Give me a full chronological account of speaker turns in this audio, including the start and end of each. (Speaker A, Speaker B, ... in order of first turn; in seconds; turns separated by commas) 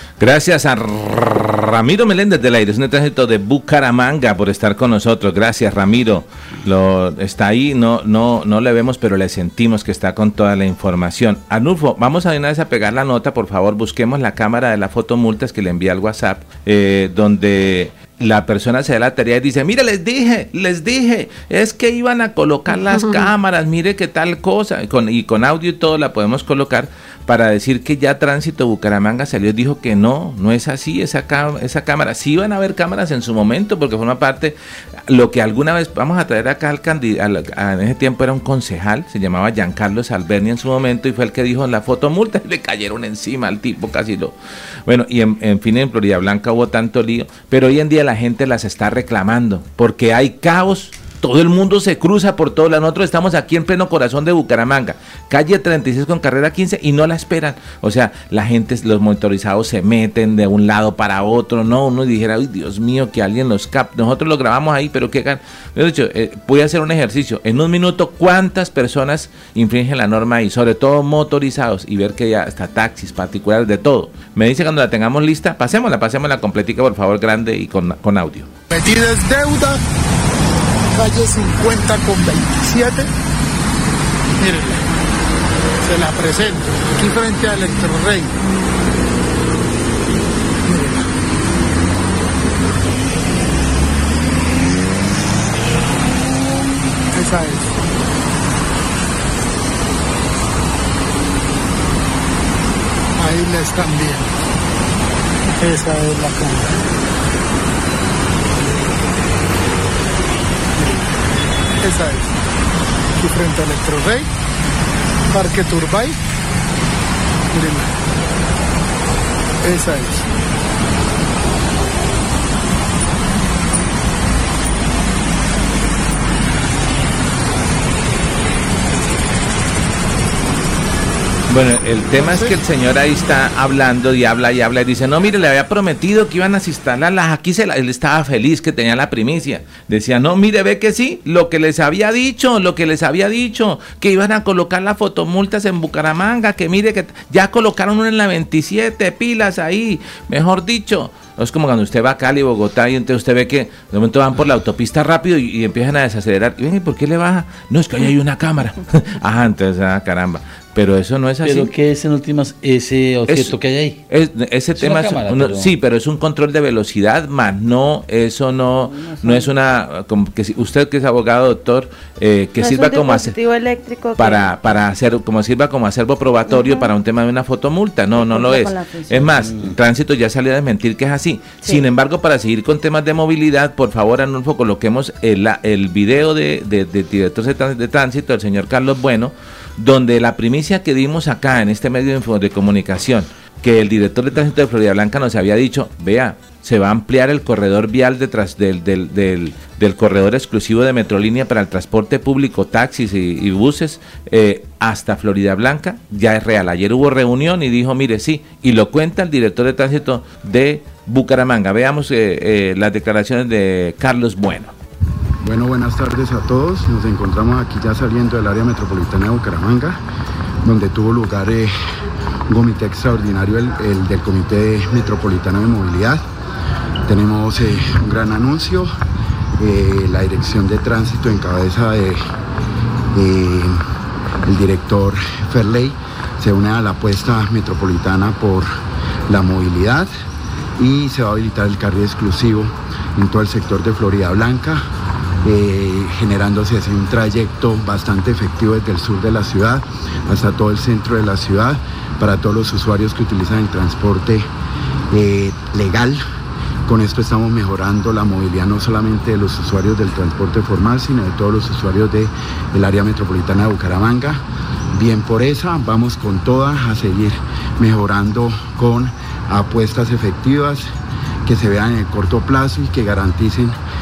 Speaker A: 0.2-34.6, Speaker A: 35.1-44.4, Speaker A: 44.9-78.5, Speaker B: 78.7-79.8, Speaker B: 80.9-83.1, Speaker B: 84.4-84.9, Speaker B: 85.8-88.4, Speaker B: 90.7-91.1, Speaker B: 97.1-97.8, Speaker B: 103.2-104.3, Speaker B: 105.6-106.8, Speaker B: 110.8-111.1, Speaker B: 111.8-112.4, Speaker B: 113.2-114.3, Speaker B: 115.3-116.2, Speaker B: 117.5-118.0, Speaker B: 119.6-120.3, Speaker A: 131.5-161.7, Speaker C: 161.4-164.0, Speaker A: 163.3-163.6, Speaker A: 164.1-173.4, Speaker C: 164.8-165.7, Speaker D: 168.9-169.5, Speaker D: 172.6-174.5, Speaker A: 174.2-214.7, Speaker D: 176.5-176.9, Speaker D: 178.1-179.4, Speaker C: 179.4-179.7, Speaker E: 215.4-220.0, Speaker E: 220.6-221.7, Speaker E: 222.5-226.2, Speaker E: 227.1-228.9, Speaker E: 229.6-232.3, Speaker E: 233.1-233.9, Speaker E: 234.4-238.7, Speaker E: 239.3-240.1, Speaker E: 240.8-244.9, Speaker E: 245.4-254.5, Speaker E: 255.1-256.2, Speaker E: 256.9-264.4, Speaker E: 264.9-270.9, Speaker E: 271.4-273.8